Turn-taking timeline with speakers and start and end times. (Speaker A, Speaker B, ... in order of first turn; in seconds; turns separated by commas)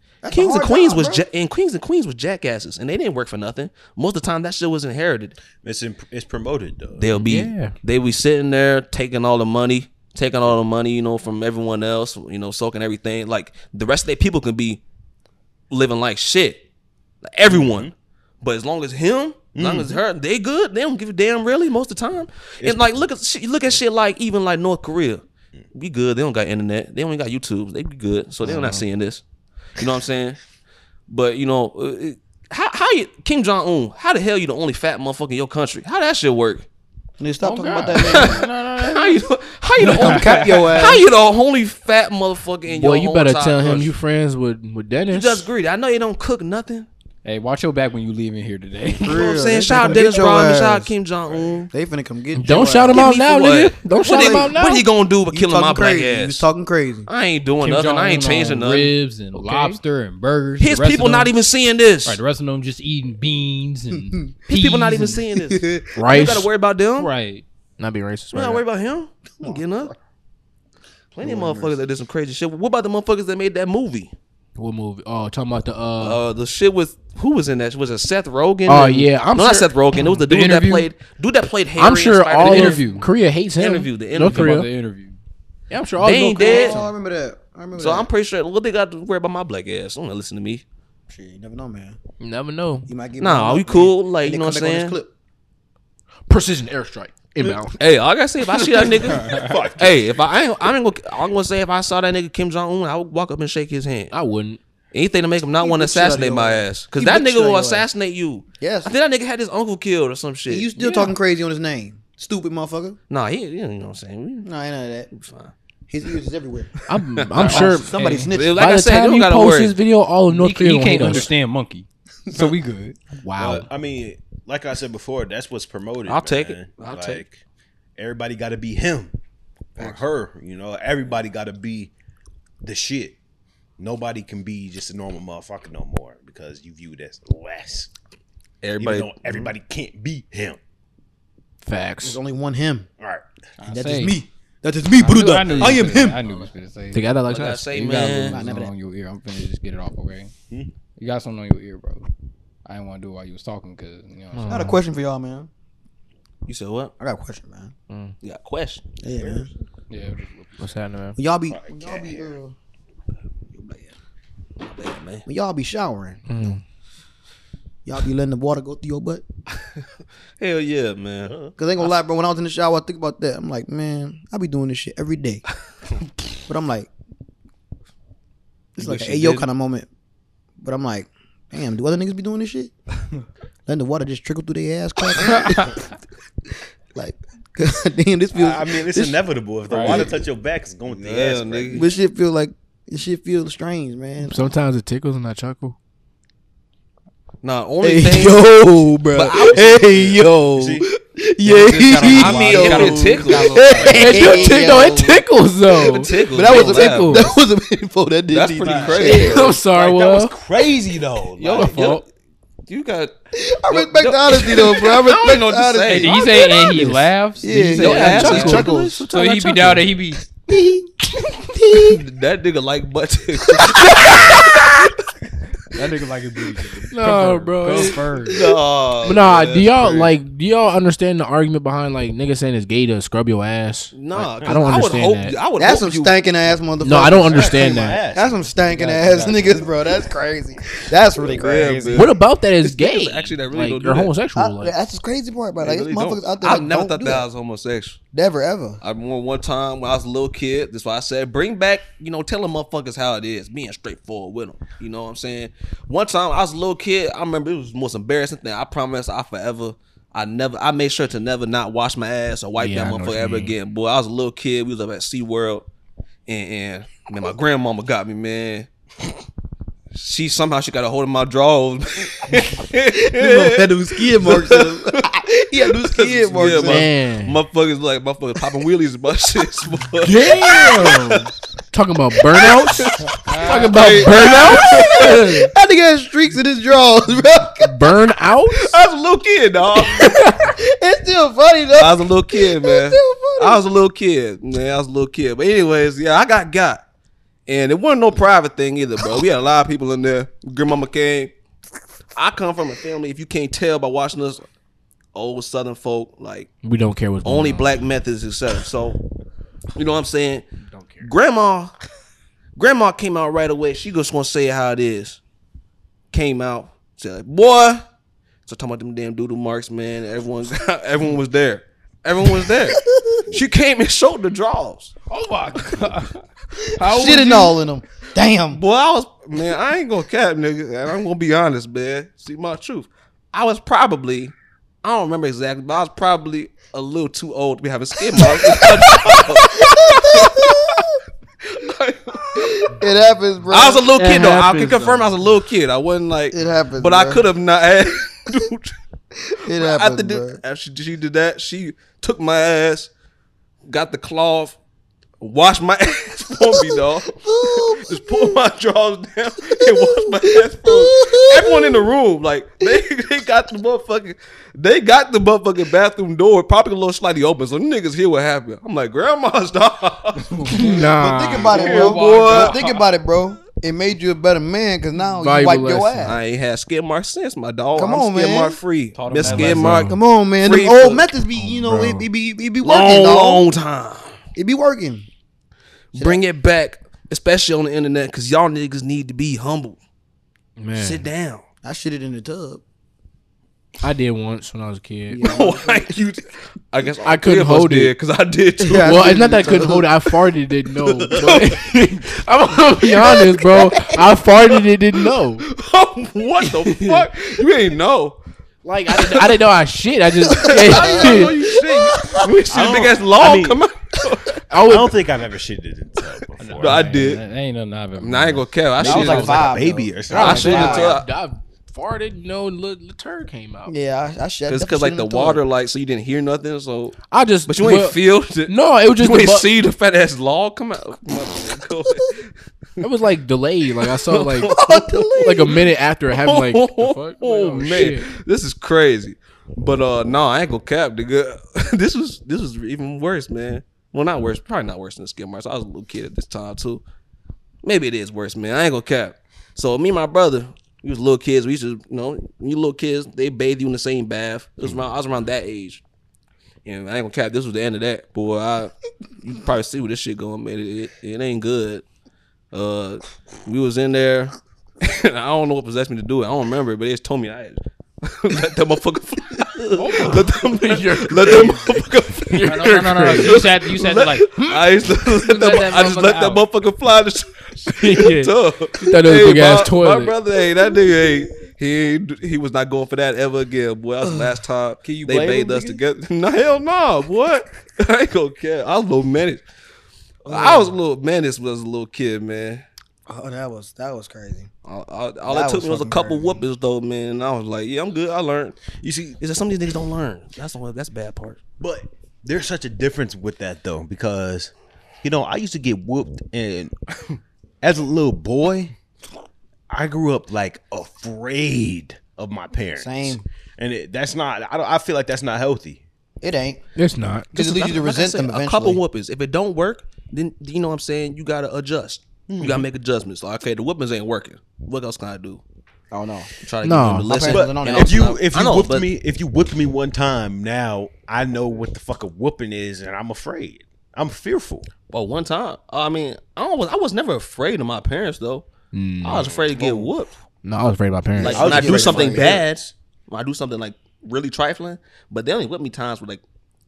Speaker A: 0.2-1.2, Speaker B: 0.3-5.4, Speaker C: 5.6-7.2, Speaker B: 7.0-14.8, Speaker D: 7.2-7.7, Speaker B: 15.7-16.6, Speaker B: 17.2-29.2, Speaker C: 17.5-17.9, Speaker C: 19.5-20.0, Speaker C: 22.6-22.9, Speaker D: 28.4-28.8, Speaker B: 29.8-30.4, Speaker B: 31.1-36.6, Speaker A: 37.2-38.5, Speaker E: 37.4-39.2, Speaker B: 38.0-43.9, Speaker E: 39.8-40.9, Speaker A: 39.8-41.0, Speaker D: 42.6-45.5, Speaker B: 45.1-46.9, Speaker E: 47.2-49.3, Speaker A: 49.0-50.9, Speaker B: 49.0-51.7, Speaker C: 51.3-51.6, Speaker A: 51.7-53.1, Speaker D: 52.4-54.9, Speaker B: 52.9-56.5, Speaker A: 54.0-54.5, Speaker A: 55.3-57.1, Speaker B: 57.1-58.9, Speaker E: 57.6-61.3, Speaker D: 59.3-59.8, Speaker B: 60.6-62.2, Speaker E: 62.0-65.2, Speaker B: 64.5-67.1, Speaker A: 65.4-65.9, Speaker D: 66.0-66.5, Speaker E: 67.0-67.4, Speaker D: 67.8-68.6, Speaker B: 68.3-69.9, Speaker A: 69.4-69.7, Speaker B: 71.1-74.1, Speaker A: 71.2-71.8, Speaker D: 74.6-76.2, Speaker B: 76.0-83.0, Speaker D: 78.7-79.7, Speaker E: 80.0-80.9, Speaker D: 81.8-84.7, Speaker E: 82.4-83.1, Speaker B: 83.6-84.6, Speaker E: 84.2-85.2, Speaker D: 85.7-86.9, Speaker B: 86.0-86.8, Speaker A: 86.4-88.1, Speaker B: 87.8-90.6, Speaker A: 91.1-92.0, Speaker D: 92.2-92.9, Speaker A: 92.9-95.1, Speaker B: 93.2-95.0, Speaker D: 96.3-97.8, Speaker B: 97.8-104.1, Speaker E: 99.0-99.6, Speaker C: 99.2-100.2, Speaker D: 104.1-104.6, Speaker B: 104.9-110.7, Speaker A: 105.6-107.9, Speaker A: 108.6-108.9, Speaker A: 110.5-113.0, Speaker E: 110.8-111.1, Speaker B: 113.1-114.5, Speaker A: 114.4-115.1, Speaker B: 115.1-115.5, Speaker A: 115.9-116.8, Speaker D: 116.9-121.3, Speaker B: 117.1-119.8, Speaker E: 117.4-117.9, Speaker A: 117.4-118.6, Speaker E: 120.3-123.1, Speaker D: 123.2-123.7, Speaker C: 123.4-127.4, Speaker B: 126.1-127.2, Speaker C: 128.0-129.1, Speaker C: 129.8-131.9, Speaker C: 132.6-133.2, Speaker C: 133.8-137.9, Speaker B: 138.6-139.5, Speaker C: 138.8-140.6, Speaker D: 141.6-142.2, Speaker A: 142.0-142.9, Speaker E: 143.6-144.2, Speaker A: 143.6-146.2, Speaker E: 145.0-147.2, Speaker C: 145.5-146.2, Speaker D: 146.9-148.3, Speaker B: 147.3-148.4, Speaker E: 147.7-150.3, Speaker A: 148.3-148.7, Speaker E: 151.0-152.1, Speaker E: 152.6-154.7, Speaker D: 154.3-154.8, Speaker A: 154.5-155.5, Speaker B: 156.4-156.9, Speaker A: 157.0-157.7, Speaker D: 157.9-158.1, Speaker B: 158.2-158.9, Speaker A: 159.0-159.5, Speaker C: 159.1-159.5, Speaker E: 159.9-160.6, Speaker D: 160.6-161.2, Speaker A: 161.2-162.5, Speaker C: 161.5-162.4, Speaker B: 163.5-163.9, Speaker B: 164.6-165.2, Speaker A: 165.2-166.3, Speaker D: 166.3-166.6, Speaker A: 167.8-169.2, Speaker B: 170.4-171.5, Speaker C: 171.2-171.5, Speaker A: 171.6-175.4, Speaker A: 176.4-176.9, Speaker A: 178.8-179.9, Speaker B: 178.8-179.5, Speaker A: 180.6-182.7, Speaker A: 183.7-185.8, Speaker E: 185.2-185.8, Speaker A: 186.9-189.2, Speaker C: 188.3-191.9, Speaker E: 189.7-190.1, Speaker A: 189.7-190.1, Speaker B: 190.9-191.9, Speaker A: 191.7-194.4, Speaker D: 194.2-195.8, Speaker B: 197.4-198.4, Speaker A: 197.8-205.2, Speaker B: 199.1-199.8, Speaker C: 199.5-200.9, Speaker E: 201.4-204.5, Speaker B: 202.0-204.6, Speaker D: 203.9-207.2, Speaker B: 205.7-207.3, Speaker A: 205.9-209.5, Speaker B: 208.3-209.5, Speaker C: 208.6-211.9, Speaker D: 209.0-210.3, Speaker B: 211.4-212.0, Speaker D: 211.5-212.0, Speaker B: 212.7-213.1, Speaker A: 213.3-219.0, Speaker B: 213.7-216.2, Speaker E: 215.8-220.2, Speaker D: 217.5-219.8, Speaker B: 217.6-219.8, Speaker A: 220.5-222.0, Speaker B: 221.7-224.9, Speaker A: 223.6-224.5, Speaker E: 225.7-228.5, Speaker D: 226.9-228.1, Speaker B: 228.2-230.1, Speaker D: 229.0-235.3, Speaker B: 233.9-236.2, Speaker A: 235.6-242.1, Speaker D: 236.8-238.0, Speaker C: 237.3-238.4, Speaker E: 238.7-239.7, Speaker B: 241.2-244.1, Speaker D: 241.9-244.7, Speaker A: 244.3-247.2, Speaker B: 245.6-248.0, Speaker A: 248.1-248.8, Speaker B: 248.8-265.6, Speaker D: 262.6-263.5, Speaker B: 266.3-268.7, Speaker B: 269.9-275.1, Speaker A: 272.9-276.9, Speaker B: 275.6-281.3, Speaker D: 276.4-277.4, Speaker D: 280.0-285.5, Speaker B: 282.3-285.3, Speaker E: 283.1-284.1, Speaker A: 284.1-287.9, Speaker D: 287.6-288.8, Speaker B: 288.5-290.2, Speaker A: 289.8-293.6, Speaker D: 290.0-290.4, Speaker B: 291.7-296.8, Speaker B: 297.5-301.3, Speaker B: 302.1-304.4, Speaker B: 305.1-306.5, Speaker D: 306.6-307.9, Speaker B: 307.2-309.0, Speaker B: 309.8-310.4, Speaker D: 310.8-311.0, Speaker B: 311.0-311.7, Speaker B: 312.6-315.2, Speaker B: 316.1-317.9, Speaker B: 318.4-324.9, Speaker A: 322.8-323.2, Speaker E: 325.1-327.6, Speaker A: 326.6-328.6, Speaker B: 328.5-340.9, Speaker A: 338.2-341.0, Speaker B: 341.4-342.8, Speaker A: 342.3-343.9, Speaker B: 343.5-348.8, Speaker D: 343.9-345.2, Speaker A: 346.3-347.3, Speaker A: 349.2-350.4, Speaker B: 349.5-352.9, Speaker B: 353.7-354.6, Speaker B: 355.2-370.6, Speaker A: 356.5-358.4, Speaker A: 359.6-361.9, Speaker E: 370.2-370.8, Speaker D: 370.5-371.6, Speaker A: 370.5-376.2, Speaker B: 371.4-372.6, Speaker E: 371.5-372.8, Speaker D: 375.1-376.1, Speaker B: 376.0-381.1, Speaker A: 377.7-378.6, Speaker E: 378.9-379.9, Speaker D: 379.2-380.0, Speaker A: 379.2-383.5, Speaker D: 381.4-382.1, Speaker B: 382.6-384.2, Speaker A: 384.4-385.1, Speaker B: 385.9-389.8, Speaker A: 385.9-386.2, Speaker D: 390.6-391.0, Speaker B: 390.7-391.4, Speaker A: 391.6-392.6, Speaker D: 393.8-395.5, Speaker A: 395.1-395.9, Speaker B: 395.2-399.2, Speaker D: 397.0-397.9, Speaker A: 398.6-399.9, Speaker D: 398.8-405.4, Speaker B: 401.1-401.6, Speaker B: 403.0-403.9, Speaker B: 405.4-408.2, Speaker D: 408.6-411.4, Speaker B: 408.9-409.4, Speaker B: 410.3-414.4, Speaker A: 410.3-412.2, Speaker C: 412.5-413.6, Speaker D: 414.5-414.9, Speaker C: 414.6-416.8, Speaker E: 416.5-418.5, Speaker B: 416.6-417.2, Speaker B: 418.0-419.5, Speaker C: 418.8-420.7, Speaker A: 418.8-420.9, Speaker B: 420.1-421.1, Speaker D: 420.1-423.7, Speaker A: 423.7-425.4, Speaker B: 424.5-432.8, Speaker D: 427.1-429.5, Speaker D: 432.8-434.5, Speaker B: 434.0-435.6, Speaker A: 434.4-435.6, Speaker D: 435.1-438.1, Speaker B: 436.1-446.8, Speaker B: 447.6-455.8, Speaker B: 456.6-461.9, Speaker B: 462.5-489.4, Speaker E: 469.8-470.2, Speaker D: 469.9-473.4, Speaker E: 472.4-474.5, Speaker E: 475.1-476.4, Speaker D: 477.8-480.1, Speaker A: 484.0-484.3, Speaker A: 484.8-485.8, Speaker A: 490.2-490.8, Speaker B: 490.2-492.6, Speaker A: 493.1-494.5, Speaker B: 494.6-501.4, Speaker A: 495.2-496.4, Speaker C: 501.6-506.7, Speaker C: 507.6-508.7, Speaker C: 509.7-515.8, Speaker A: 512.8-513.2, Speaker A: 516.2-516.6, Speaker D: 516.8-517.3, Speaker A: 517.3-518.8, Speaker B: 517.3-525.4, Speaker C: 522.3-522.7, Speaker A: 525.9-526.3, Speaker B: 526.4-528.9, Speaker D: 526.6-527.1, Speaker A: 527.0-528.1, Speaker C: 527.3-534.7, Speaker B: 534.9-538.5, Speaker D: 538.7-539.3, Speaker B: 539.0-540.1, Speaker C: 539.1-539.9, Speaker D: 540.4-541.8, Speaker A: 541.2-542.4, Speaker C: 541.2-542.7, Speaker B: 541.2-546.2